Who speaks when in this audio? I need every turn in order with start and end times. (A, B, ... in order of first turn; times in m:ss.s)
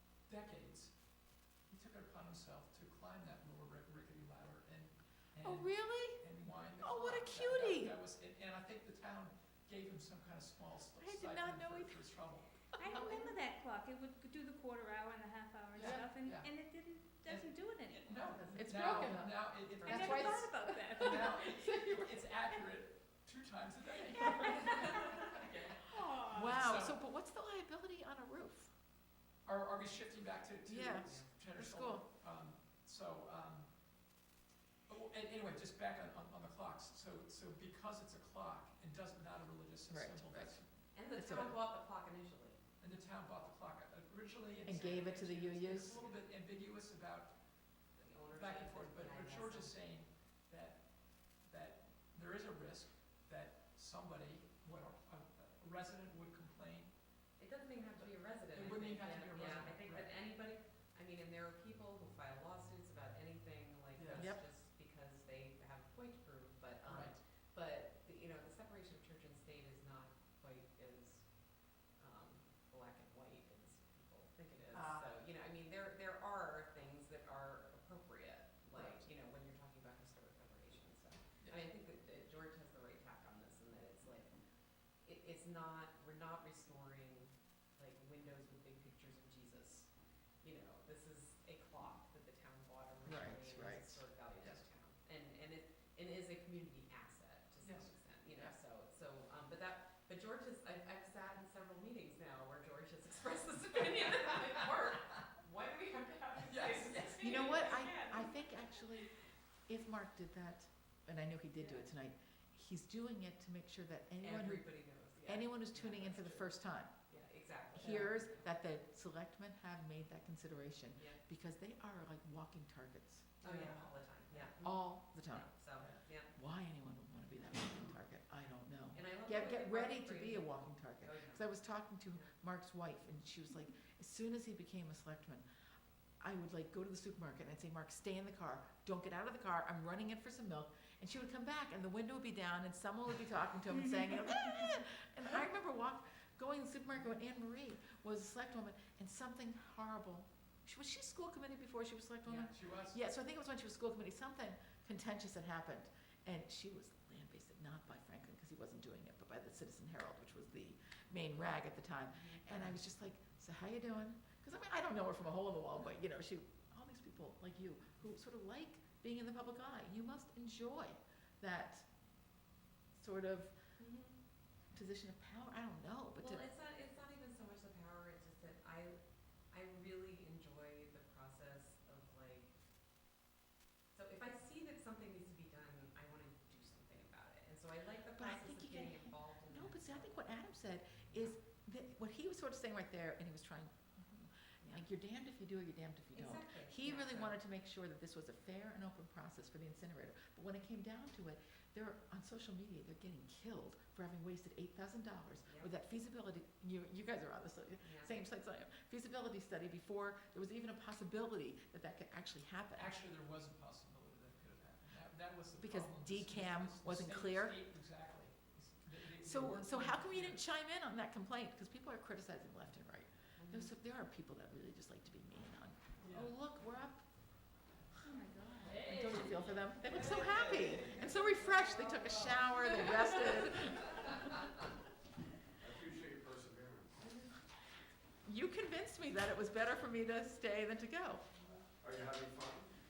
0:00.3-0:00.9 A
0:01.7-0:12.6 A
0:05.4-0:06.2 B
0:06.8-0:08.0 B
0:11.0-0:12.1 B
0:12.8-0:18.1 C
0:12.8-0:13.3 B
0:15.7-0:16.5 A
0:15.8-0:16.0 B
0:17.2-0:25.8 A
0:18.1-0:18.6 D
0:18.6-0:22.2 B
0:19.8-0:21.3 C
0:24.2-0:24.9 C
0:24.6-0:25.7 D
0:25.9-0:26.6 C
0:26.2-0:28.7 B
0:26.3-0:27.0 A
0:29.5-0:33.7 A
0:30.7-0:32.1 B
0:31.0-0:31.3 D
0:34.9-0:40.7 A
0:39.9-0:40.6 B
0:40.9-0:42.6 D
0:41.2-0:41.6 B
0:42.8-0:47.3 A
0:44.7-0:46.0 B
0:44.7-0:46.2 D
0:48.0-0:49.7 D
0:48.3-0:50.8 A
0:51.4-0:56.9 A
0:57.4-1:11.3 D
0:58.0-1:00.1 A
1:04.0-1:04.3 A
1:04.2-1:04.4 B
1:06.8-1:07.2 A
1:12.0-1:24.3 D
1:18.7-1:19.1 A
1:25.0-1:29.9 D
1:30.4-1:48.5 D
1:33.0-1:34.0 B
1:34.4-1:34.7 A
1:37.6-1:37.9 A
1:46.5-1:47.7 A
1:47.2-1:49.1 B
1:49.7-1:54.6 B
1:54.2-1:58.5 D
1:55.2-1:56.9 B
1:57.7-2:03.8 B
2:03.4-2:06.3 D
2:04.6-2:05.5 B
2:06.3-2:15.4 B
2:08.9-2:11.5 D
2:16.2-2:51.9 B
2:24.2-2:24.4 C
2:32.2-2:33.0 A
2:52.9-2:53.6 B
2:53.8-2:54.2 D
2:54.7-2:56.5 B
2:56.2-2:59.0 D
2:59.5-3:02.6 D
3:03.9-3:10.2 D
3:08.2-3:33.0 B
3:16.2-3:17.3 D
3:25.5-3:25.7 D
3:27.8-3:28.2 D
3:32.8-3:40.4 A
3:35.6-3:37.6 B
3:39.2-3:47.1 B
3:43.4-3:43.7 D
3:46.0-3:46.3 A
3:48.0-3:48.8 C
3:48.7-3:54.5 B
3:48.7-3:49.4 D
3:49.9-3:52.4 D
3:55.6-3:57.0 E
3:58.2-4:01.2 B
4:01.8-4:02.7 E